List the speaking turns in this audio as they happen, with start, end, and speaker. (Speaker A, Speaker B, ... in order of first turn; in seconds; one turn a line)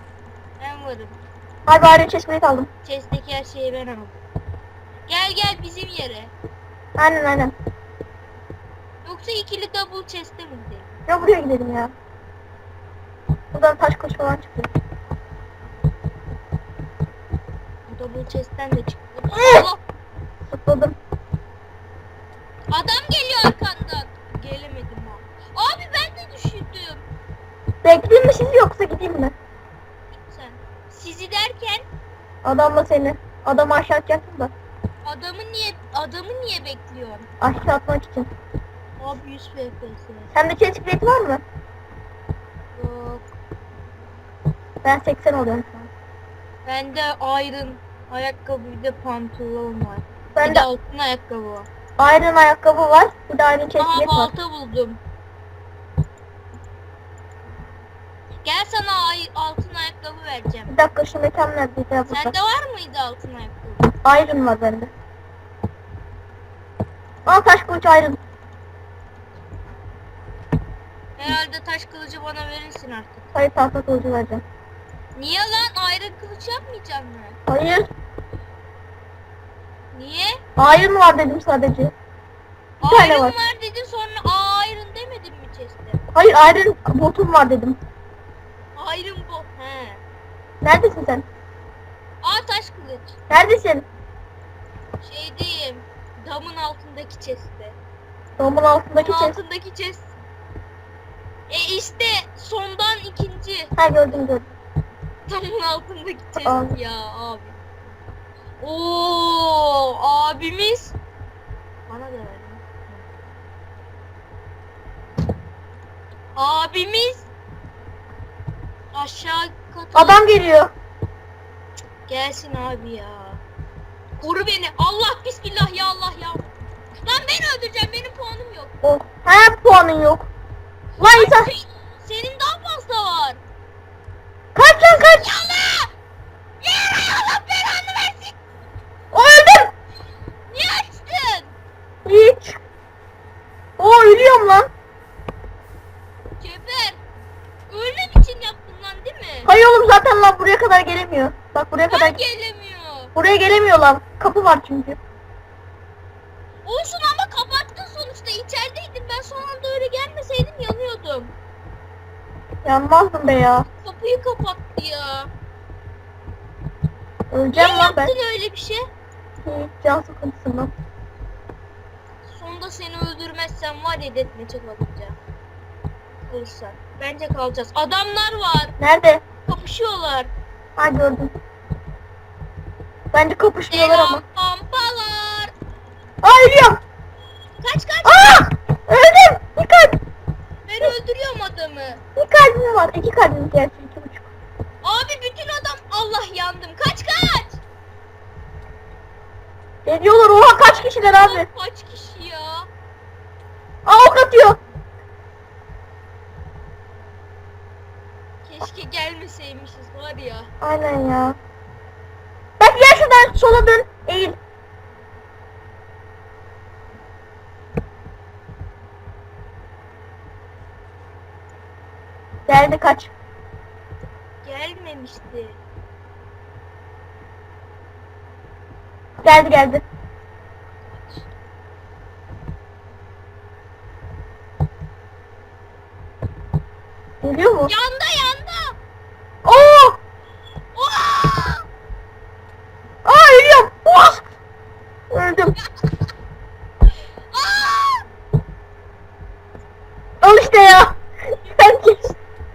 Speaker A: 0.6-1.2
Speaker B: 1.7-2.7
Speaker A: 2.8-4.2
Speaker A: 5.1-6.3
Speaker B: 7.0-7.5
Speaker A: 9.0-11.0
Speaker B: 11.1-11.9
Speaker B: 13.5-14.7
Speaker A: 17.9-19.8
Speaker B: 19.3-19.7
Speaker B: 20.5-20.9
Speaker A: 22.7-27.1
Speaker B: 27.8-29.3
Speaker A: 30.1-31.9
Speaker B: 32.4-34.5
Speaker A: 35.0-37.3
Speaker B: 37.4-38.3
Speaker A: 39.0-40.3
Speaker B: 40.3-41.4
Speaker A: 42.7-43.3
Speaker B: 44.8-45.9
Speaker A: 46.6-51.7
Speaker B: 50.4-50.7
Speaker B: 52.0-54.3
Speaker A: 53.8-55.0
Speaker A: 58.4-60.7
Speaker B: 60.7-62.3
Speaker A: 62.1-63.9
Speaker B: 64.0-64.9
Speaker B: 67.2-68.2
Speaker A: 71.2-73.3
Speaker B: 73.3-74.4
Speaker A: 75.1-77.4
Speaker B: 77.5-77.9
Speaker A: 79.9-80.4
Speaker B: 80.6-81.9
Speaker A: 82.8-86.0
Speaker B: 82.8-83.3
Speaker B: 86.1-87.8
Speaker A: 88.8-90.0
Speaker B: 90.6-91.2
Speaker A: 92.2-93.2
Speaker B: 93.3-93.8
Speaker A: 95.0-97.8
Speaker B: 98.4-99.3
Speaker A: 99.0-100.1
Speaker A: 101.5-103.7
Speaker B: 103.8-104.5
Speaker A: 105.3-107.6
Speaker B: 106.4-106.7
Speaker A: 108.6-111.0
Speaker A: 111.9-113.1
Speaker A: 116.3-117.3
Speaker A: 118.9-120.2
Speaker B: 119.9-120.7
Speaker A: 122.1-123.4
Speaker A: 124.2-128.7
Speaker B: 128.8-130.3
Speaker A: 131.0-133.4
Speaker B: 131.0-131.5
Speaker B: 134.5-135.3
Speaker A: 135.1-135.9
Speaker A: 136.6-138.3
Speaker B: 139.1-139.7
Speaker A: 140.5-141.5
Speaker B: 142.0-142.6
Speaker B: 143.8-144.7
Speaker A: 146.4-147.0
Speaker A: 147.7-149.5
Speaker B: 149.4-152.2
Speaker A: 151.9-153.1
Speaker B: 153.1-155.0
Speaker A: 156.6-161.3
Speaker B: 162.6-163.7
Speaker A: 163.8-165.3
Speaker B: 167.3-168.1
Speaker A: 167.5-168.9
Speaker B: 169.4-170.7
Speaker A: 172.3-175.2
Speaker A: 176.3-178.8
Speaker B: 178.8-179.2
Speaker A: 179.4-180.3
Speaker B: 180.8-181.3
Speaker B: 183.1-184.2
Speaker A: 183.7-185.5
Speaker B: 186.2-186.8
Speaker A: 187.6-188.4
Speaker B: 188.0-190.0
Speaker A: 190.7-192.0
Speaker B: 192.2-194.3
Speaker A: 194.8-197.6
Speaker B: 199.8-201.5
Speaker A: 201.2-202.7
Speaker B: 203.8-204.6
Speaker A: 208.4-210.5
Speaker B: 210.6-211.4
Speaker B: 212.6-214.3
Speaker B: 222.5-223.1
Speaker A: 224.4-225.6
Speaker B: 229.2-229.8
Speaker A: 230.9-231.2
Speaker B: 237.2-237.7
Speaker A: 237.7-238.8
Speaker B: 239.4-240.0
Speaker A: 240.7-241.7
Speaker B: 243.0-244.2
Speaker B: 245.1-245.6
Speaker A: 247.3-248.1
Speaker B: 250.2-252.0
Speaker A: 251.5-252.1